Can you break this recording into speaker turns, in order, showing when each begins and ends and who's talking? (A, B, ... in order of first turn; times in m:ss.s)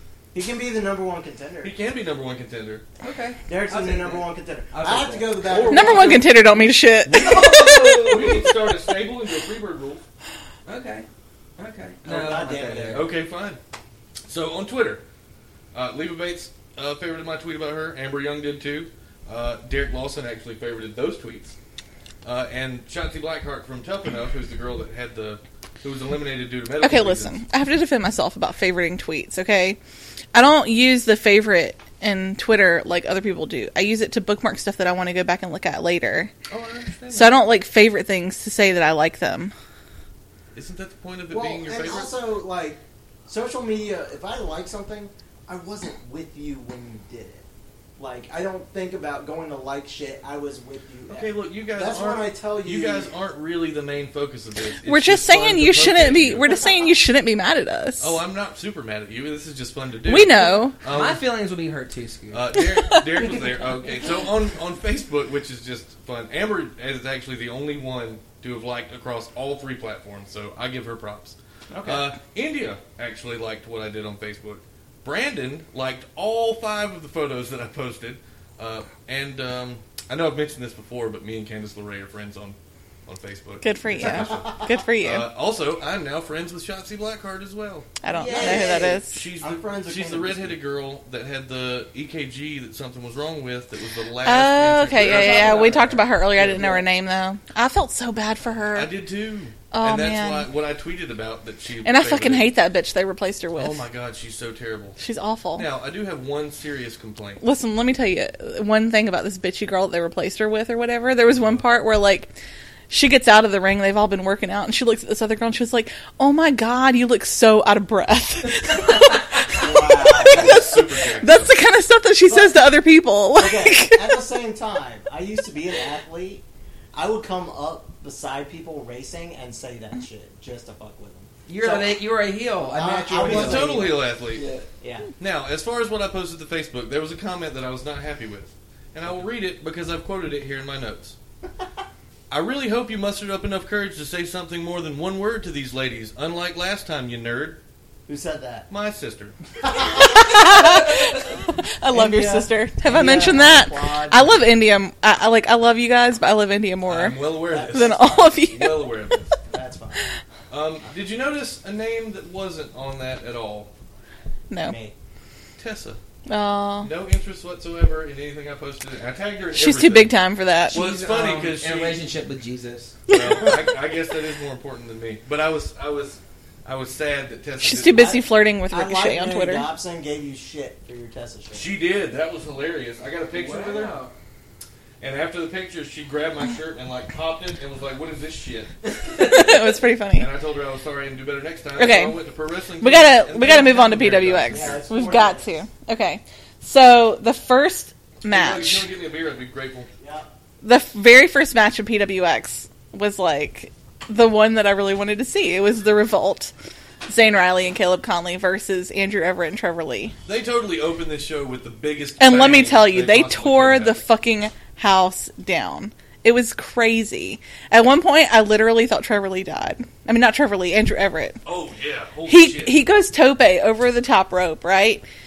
0:00.3-0:01.7 A
0:01.6-0:02.8 B
0:03.0-0:05.7 C
0:03.4-0:06.3 A
0:05.4-0:06.4 B
0:05.7-0:08.0 D
0:07.0-0:10.0 B
0:07.1-0:08.5 C
0:10.6-0:13.1 C
0:12.0-0:13.1 A
0:12.9-0:13.6 B
0:14.3-0:15.0 B
0:15.7-0:21.6 B
0:22.2-0:27.4 B
0:26.8-0:29.8 D
0:30.3-0:36.3 D
0:36.5-0:37.4 B
0:37.1-0:39.5 D
0:40.5-0:42.1 B
0:41.3-0:47.4 A
0:48.0-0:53.1 A
0:51.1-0:56.6 B
0:54.8-0:58.2 D
0:58.0-1:01.2 B
1:00.0-1:00.8 D
1:00.9-1:02.5 C
1:02.3-1:22.6 B
1:02.8-1:03.4 D
1:11.7-1:12.1 A
1:23.1-1:27.9 B
1:23.6-1:25.3 D
1:24.0-1:24.7 A
1:28.0-1:29.2 D
1:28.1-1:28.9 C
1:28.2-1:30.6 A
1:28.6-1:36.7 B
1:34.2-1:38.9 D
1:35.0-1:35.9 A
1:35.2-1:35.7 C
1:38.7-1:42.5 B
1:39.7-1:40.5 D
1:41.8-1:43.8 D
1:43.6-1:45.0 B
1:45.0-1:45.7 D
1:45.6-1:47.4 B
1:47.4-1:52.3 D
1:51.3-1:51.6 B
1:52.9-2:04.2 D
1:59.5-2:00.7 A
2:00.2-2:01.5 B
2:02.3-2:02.7 A
2:03.4-2:12.0 A
2:11.5-2:14.7 C
2:12.7-2:14.0 A
2:13.2-2:14.4 B
2:14.8-2:15.1 A
2:15.2-2:21.1 B
2:22.3-2:27.6 B
2:28.1-2:28.7 A
2:28.7-2:29.4 B
2:29.6-2:31.0 A
2:29.9-2:38.9 D
2:31.9-2:34.4 A
2:36.9-2:39.3 B
2:37.4-2:38.3 A
2:39.5-2:40.0 A
2:40.5-2:43.7 B
2:44.5-2:44.8 D
2:44.6-2:44.9 A
2:45.6-2:46.0 B
2:46.3-2:46.9 D
2:46.8-2:50.1 B
2:49.5-2:50.8 D
2:50.7-2:53.0 C
2:50.7-2:52.0 B
2:53.1-2:53.6 D
2:53.1-2:58.2 B
2:57.6-2:59.7 D
2:57.9-3:01.7 A
3:01.5-3:04.0 B
3:03.3-3:04.1 C
3:05.0-3:08.8 B
3:09.1-3:10.3 D
3:10.2-3:14.8 B
3:11.8-3:12.2 D
3:12.8-3:18.9 D
3:14.5-3:15.6 A
3:18.2-3:19.9 B
3:20.0-3:20.3 A
3:20.6-3:26.5 D
3:27.1-3:30.1 D
3:30.2-3:34.0 B
3:32.2-3:41.4 D
3:41.4-3:42.8 B
3:42.2-3:45.0 D